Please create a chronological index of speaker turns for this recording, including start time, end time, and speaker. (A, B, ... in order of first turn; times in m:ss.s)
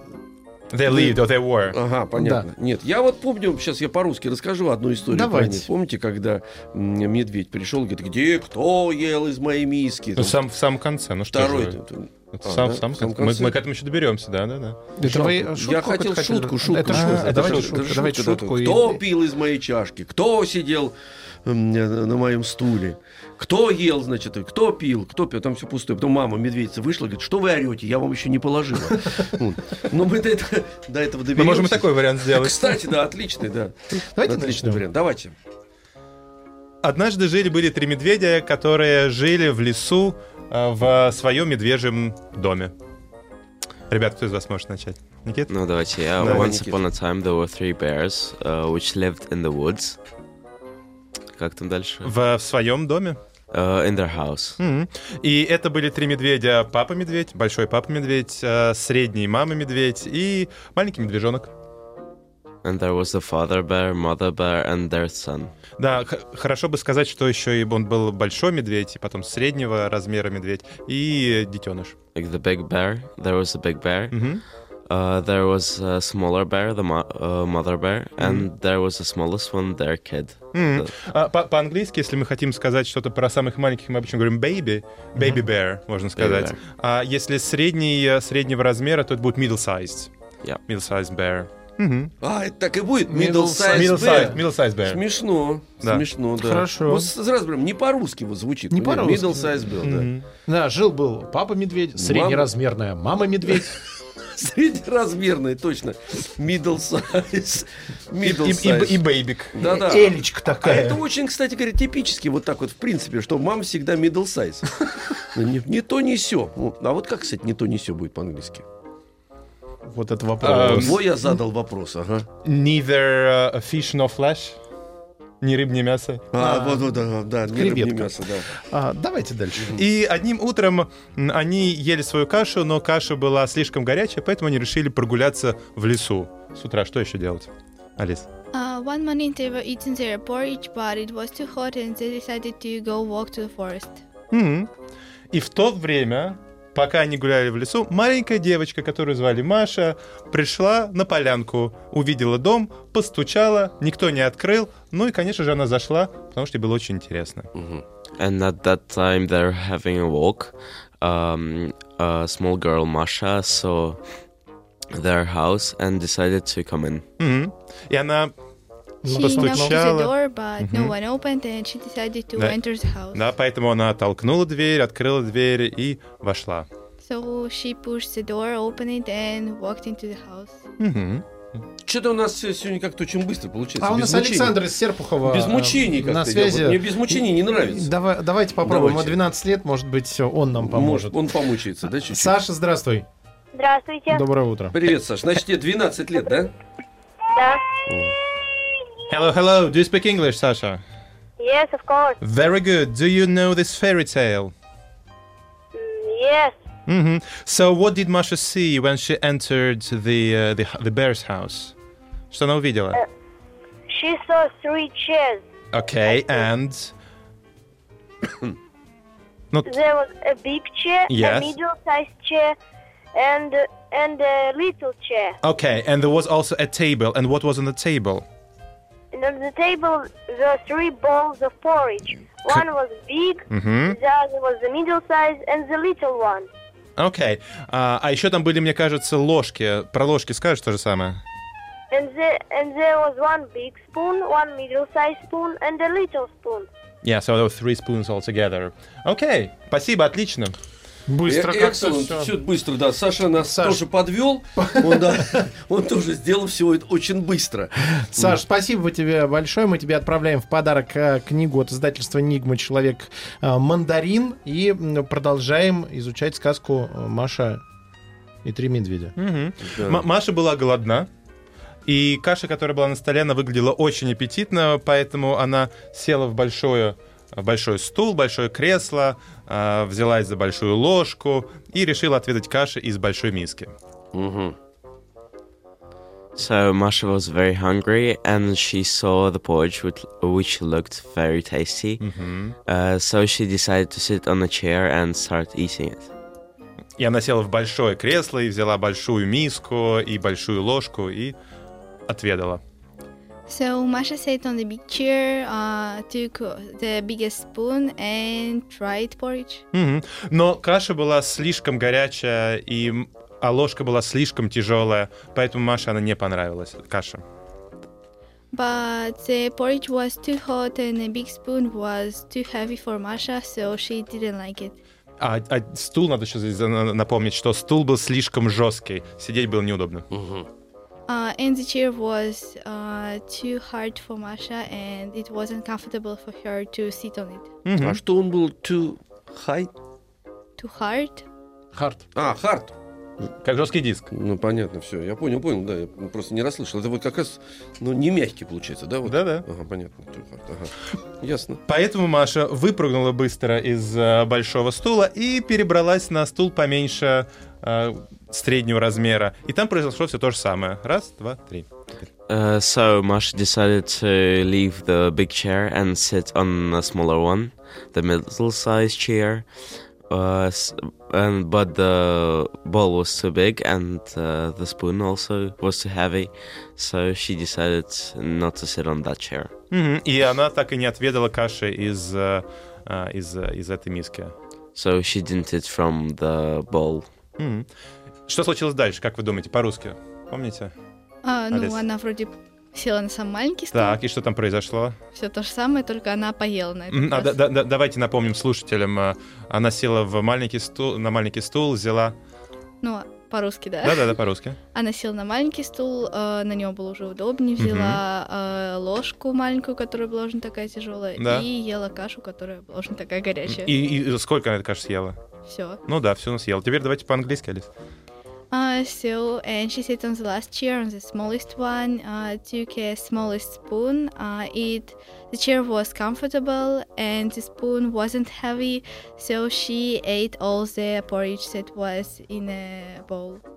0:00.7-0:01.8 A
0:00.9-0:01.1 B
0:01.7-0:10.4 C
0:02.2-0:02.5 B
0:05.1-0:05.7 B
0:10.2-0:11.8 A
0:11.3-0:13.5 C
0:12.3-0:14.8 A
0:15.0-0:19.0 B
0:15.0-0:35.3 C
0:16.9-0:17.8 A
0:31.4-0:32.7 A
0:34.1-0:34.8 B
0:36.8-0:42.7 A
0:43.9-0:45.5 A
0:45.5-0:50.0 D
0:46.2-0:46.8 C
0:46.2-0:46.5 A
0:51.4-0:52.1 D
0:52.0-0:53.2 A
0:53.5-0:54.6 D
0:54.6-1:01.5 A
1:02.6-1:05.5 D
1:05.8-1:11.9 A
1:12.1-1:14.2 D
1:14.1-1:14.4 A
1:14.9-1:20.9 D
1:18.2-1:18.5 A
1:20.5-1:30.1 A
1:26.2-1:26.6 D
1:30.7-1:32.1 A
1:32.2-1:40.1 C
1:33.1-1:34.4 B
1:33.6-1:35.0 A
1:36.4-1:37.1 B
1:38.7-1:39.5 B
1:39.8-1:40.2 A
1:40.5-1:43.8 B
1:42.0-1:42.5 C
1:44.2-1:49.0 C
1:48.2-1:49.6 A
1:49.6-1:58.6 C
1:49.6-1:51.0 B
1:59.8-2:01.3 B
2:00.4-2:01.0 A
2:00.5-2:02.3 C
2:02.4-2:04.6 A
2:05.4-2:06.3 A
2:06.3-2:08.5 C
2:06.4-2:09.8 B
2:09.7-2:18.3 A
2:18.5-2:24.0 E
2:24.3-2:24.7 A
2:25.3-2:37.5 A
2:37.6-2:37.8 C
2:38.2-2:44.0 D
2:44.9-2:47.0 D
2:47.2-2:48.3 A
2:49.0-2:49.8 B
2:49.1-2:50.9 A
2:49.1-2:53.3 E
2:53.1-2:56.7 A
2:57.0-3:00.6 E
3:00.8-3:01.2 A
3:01.8-3:04.6 C
3:03.8-3:11.3 B
3:05.2-3:07.9 C
3:08.6-3:09.2 C
3:10.6-3:12.3 C
3:12.0-3:13.0 B
3:13.5-3:14.2 F
3:14.1-3:14.8 B
3:14.7-3:16.5 C
3:17.3-3:17.6 F
3:17.9-3:18.1 C
3:19.1-3:20.8 A
3:21.4-3:22.2 F
3:22.2-3:24.5 A
3:25.7-3:26.5 F
3:26.9-3:31.7 A
3:32.3-3:33.0 A
3:33.9-3:35.4 F
3:35.7-3:36.9 A
3:39.6-3:42.5 F
3:41.1-3:41.5 A
3:43.1-3:45.4 F
3:45.4-3:48.2 A
3:49.1-3:56.5 F
3:53.5-3:54.0 A
3:57.0-4:01.2 A
4:01.9-4:06.7 F
4:07.0-4:10.5 A
4:11.1-4:12.3 B
4:11.2-4:18.4 C
4:13.4-4:13.8 B
4:14.6-4:15.3 B
4:18.0-4:27.6 B
4:28.4-4:29.1 B
4:29.2-4:31.1 A
4:29.7-4:30.0 C
4:31.8-4:43.7 A
4:44.1-4:44.5 C
4:46.4-4:52.0 D
4:52.0-4:52.6 A
4:52.7-4:56.1 D
4:57.0-5:01.3 A
5:02.1-5:02.6 A
5:03.5-5:09.6 E
5:09.7-5:17.2 A
5:18.5-5:24.8 E
5:25.2-5:30.1 A
5:30.1-5:30.4 C
5:31.1-5:37.5 E
5:37.6-5:38.0 A
5:37.8-5:39.7 C
5:40.6-5:41.2 E
5:41.7-5:42.0 B
5:42.1-5:42.7 C
5:43.4-5:44.1 A
5:44.1-5:51.6 C
5:49.0-5:49.4 A
5:51.6-6:02.0 A
6:02.3-6:09.4 D
6:10.1-6:19.5 D
6:19.7-6:24.3 A
6:24.7-6:27.0 D
6:27.4-6:27.7 A
6:28.3-6:30.7 A
6:31.2-6:34.0 E
6:31.5-6:31.8 A
6:33.7-6:35.0 A
6:35.1-6:37.4 E
6:36.9-6:42.1 A
6:42.8-6:44.1 E
6:43.8-6:44.6 A
6:44.7-6:53.7 E
6:47.6-6:48.0 A
6:51.2-6:51.4 A
6:53.5-6:55.2 A
6:55.5-6:55.8 E
6:55.8-6:57.7 A
6:58.5-7:13.4 E